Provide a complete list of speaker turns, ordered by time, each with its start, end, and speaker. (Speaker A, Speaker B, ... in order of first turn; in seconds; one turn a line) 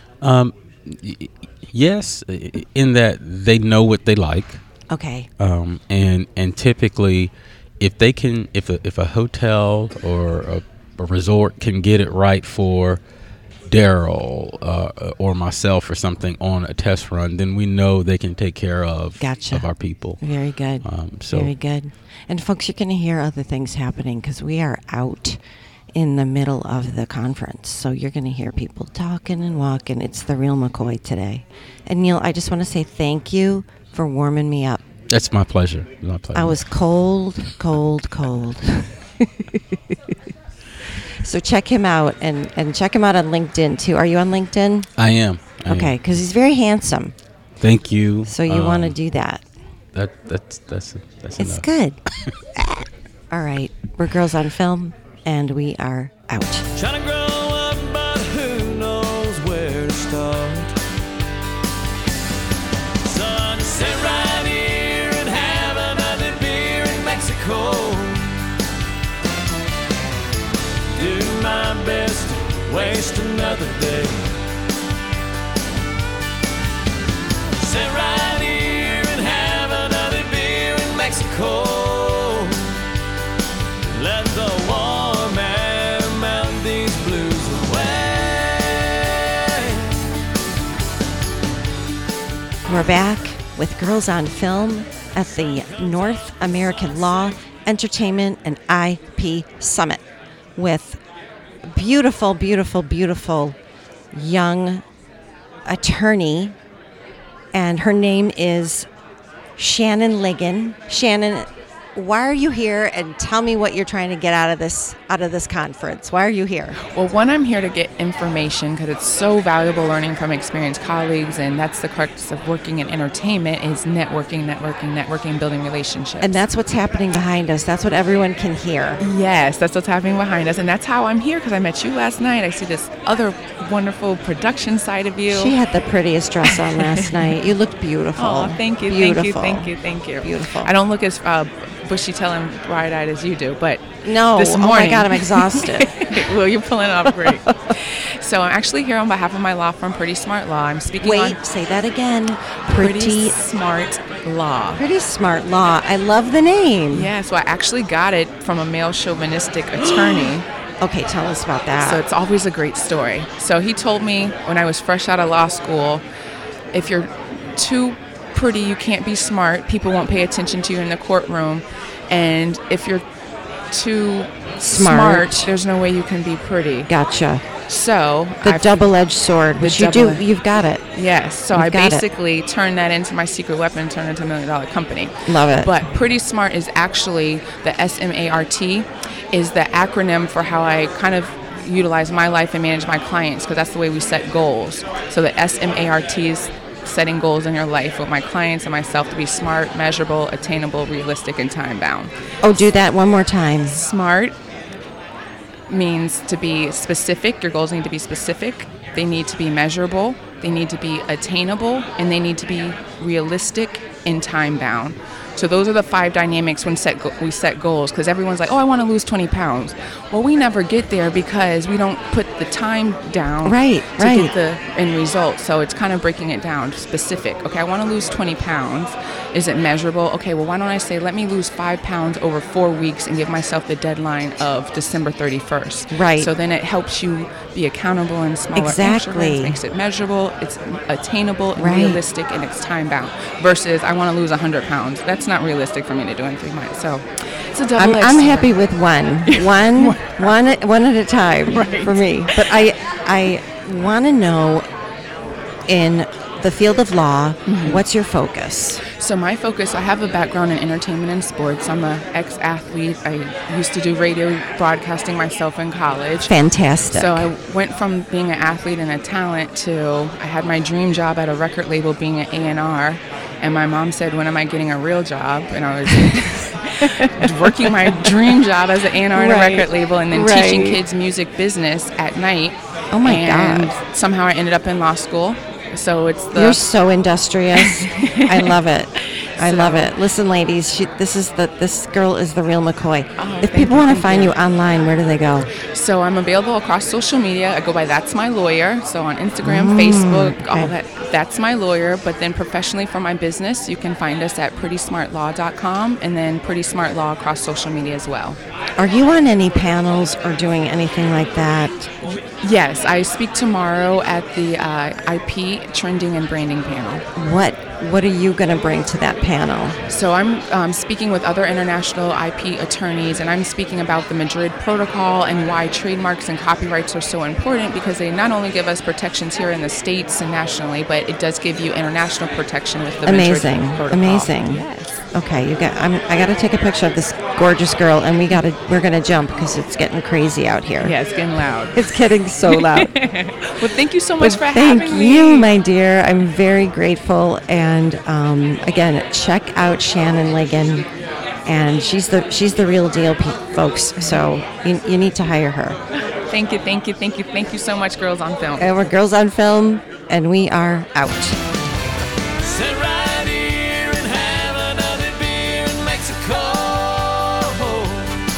Speaker A: 0.2-4.6
Speaker B: 4.9-5.3
Speaker A: 5.4-13.0
Speaker A: 13.7-20.2
Speaker B: 19.2-19.7
Speaker B: 20.2-25.4
Speaker A: 20.8-21.5
Speaker B: 25.9-34.8
Speaker A: 35.1-36.7
Speaker B: 36.3-40.1
Speaker B: 41.2-44.9
Speaker A: 45.0-46.0
Speaker B: 45.7-47.1
Speaker A: 47.6-49.0
Speaker B: 48.2-49.4
Speaker A: 49.9-51.6
Speaker B: 51.4-52.0
Speaker B: 53.3-56.7
Speaker C: 56.7-60.7
Speaker C: 63.0-68.4
Speaker C: 70.9-74.3
Speaker C: 77.6-82.7
Speaker C: 83.8-89.9
Speaker B: 92.7-100.0
Speaker B: 100.5-101.0
Speaker B: 101.6-103.6
Speaker B: 104.1-104.8
Speaker B: 105.6-106.5
Speaker B: 107.5-108.9
Speaker B: 109.6-116.8
Speaker D: 116.8-126.4
Speaker B: 126.2-129.0
Speaker D: 129.0-135.6
Speaker B: 135.3-140.7
Speaker D: 136.4-137.3
Speaker D: 138.2-151.4
Speaker B: 144.0-146.3
Speaker B: 147.1-147.4
Speaker B: 151.0-153.4
Speaker D: 152.7-154.8
Speaker B: 154.7-157.1
Speaker D: 156.9-160.4
Speaker B: 159.8-162.0
Speaker D: 161.8-166.0
Speaker D: 166.7-173.0
Speaker D: 173.7-176.9
Speaker B: 174.6-175.5
Speaker B: 176.9-177.5
Speaker D: 177.7-178.9
Speaker B: 178.4-180.8
Speaker D: 179.6-180.2
Speaker D: 180.9-202.1
Speaker B: 181.5-182.0
Speaker B: 185.2-185.7
Speaker B: 202.4-203.8
Speaker D: 203.7-204.3
Speaker D: 205.7-248.6
Speaker B: 223.4-224.3
Speaker B: 235.9-236.3
Speaker B: 238.6-239.6
Speaker B: 241.6-242.0
Speaker B: 247.8-254.7
Speaker D: 249.2-250.3
Speaker D: 251.5-252.3
Speaker B: 255.7-258.8
Speaker D: 257.4-257.8
Speaker D: 258.9-266.3
Speaker B: 266.2-267.3
Speaker D: 266.9-286.6
Speaker B: 275.9-276.3
Speaker B: 277.2-278.1
Speaker B: 279.1-280.8
Speaker B: 282.9-283.7
Speaker B: 286.3-295.5
Speaker D: 287.6-289.9
Speaker D: 293.2-294.3
Speaker D: 295.7-308.4
Speaker B: 299.4-300.7
Speaker B: 308.8-311.9
Speaker D: 312.4-317.0
Speaker B: 317.1-319.8
Speaker D: 319.9-335.0
Speaker B: 333.0-340.9
Speaker D: 340.8-345.5
Speaker B: 341.7-342.9
Speaker B: 344.2-350.9
Speaker B: 351.4-355.8
Speaker D: 356.3-358.8
Speaker B: 358.6-361.4
Speaker C: 362.4-368.2